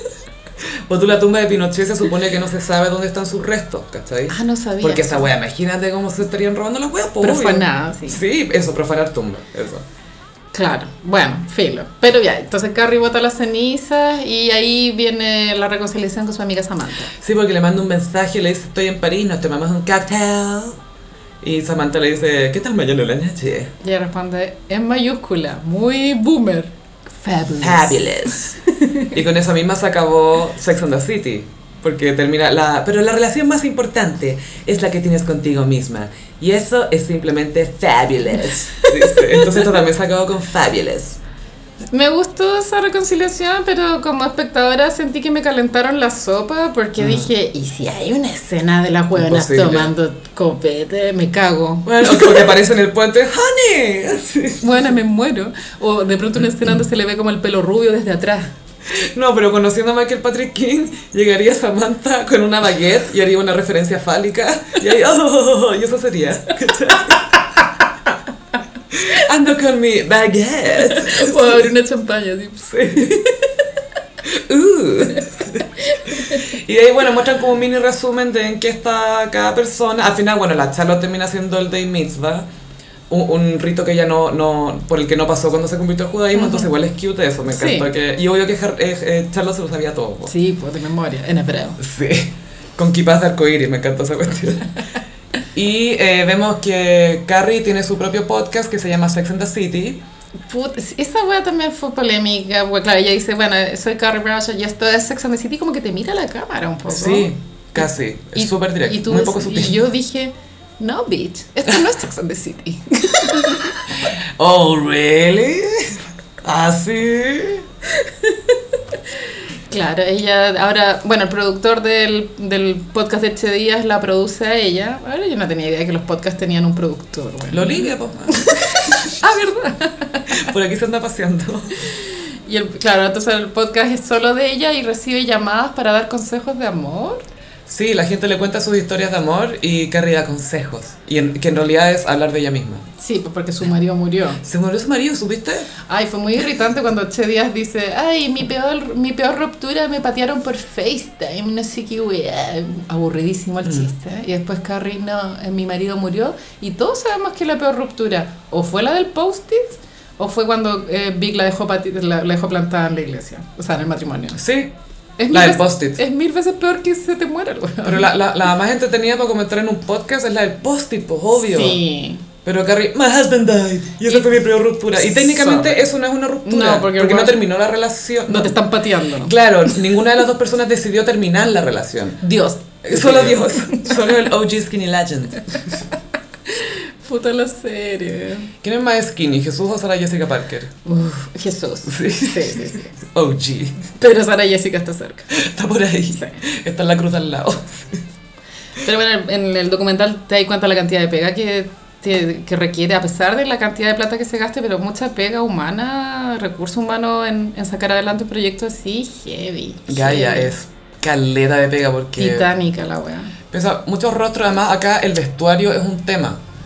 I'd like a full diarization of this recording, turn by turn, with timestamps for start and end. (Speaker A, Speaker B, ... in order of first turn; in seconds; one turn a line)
Speaker A: 0.6-9.8
Speaker B: 4.3-5.3
Speaker B: 7.2-8.2
Speaker B: 10.5-17.1
Speaker A: 17.2-20.8
Speaker A: 21.4-23.7
Speaker B: 23.8-29.2
Speaker A: 27.6-28.6
Speaker A: 29.1-41.2
Speaker B: 38.8-39.8
Speaker B: 41.9-52.5
Speaker A: 47.0-47.3
Speaker A: 49.1-49.9
Speaker A: 51.9-54.8
Speaker B: 54.6-58.5
Speaker A: 58.9-67.3
Speaker A: 68.9-71.7
Speaker B: 70.8-73.6
Speaker A: 72.7-73.2
Speaker A: 74.2-82.5
Speaker B: 75.8-76.5
Speaker A: 83.1-90.3
Speaker B: 86.3-86.7
Speaker B: 87.5-87.9
Speaker B: 90.3-91.8
Speaker A: 91.8-94.7
Speaker A: 95.5-100.0
Speaker B: 100.5-107.8
Speaker A: 106.9-109.8
Speaker B: 108.4-114.0
Speaker A: 114.1-117.6
Speaker B: 118.1-118.6
Speaker B: 119.7-130.5
Speaker A: 127.5-129.0
Speaker A: 130.3-131.7
Speaker B: 132.4-137.2
Speaker A: 137.7-142.9
Speaker B: 143.0-144.4
Speaker A: 144.4-145.7
Speaker B: 145.9-164.4
Speaker A: 164.4-164.7
Speaker B: 165.2-168.1
Speaker A: 165.3-166.0
Speaker A: 167.8-171.8
Speaker B: 171.5-172.2
Speaker A: 172.4-178.6
Speaker B: 174.9-175.8
Speaker B: 176.4-177.4
Speaker B: 178.3-179.7
Speaker A: 179.2-182.2
Speaker B: 182.2-184.1
Speaker A: 182.8-185.7
Speaker B: 186.4-188.5
Speaker A: 188.6-190.8
Speaker B: 190.9-192.9
Speaker A: 191.9-193.8
Speaker B: 194.0-195.3
Speaker A: 195.3-198.0
Speaker B: 198.8-210.5
Speaker A: 209.9-212.5
Speaker B: 212.2-213.3
Speaker A: 213.5-216.4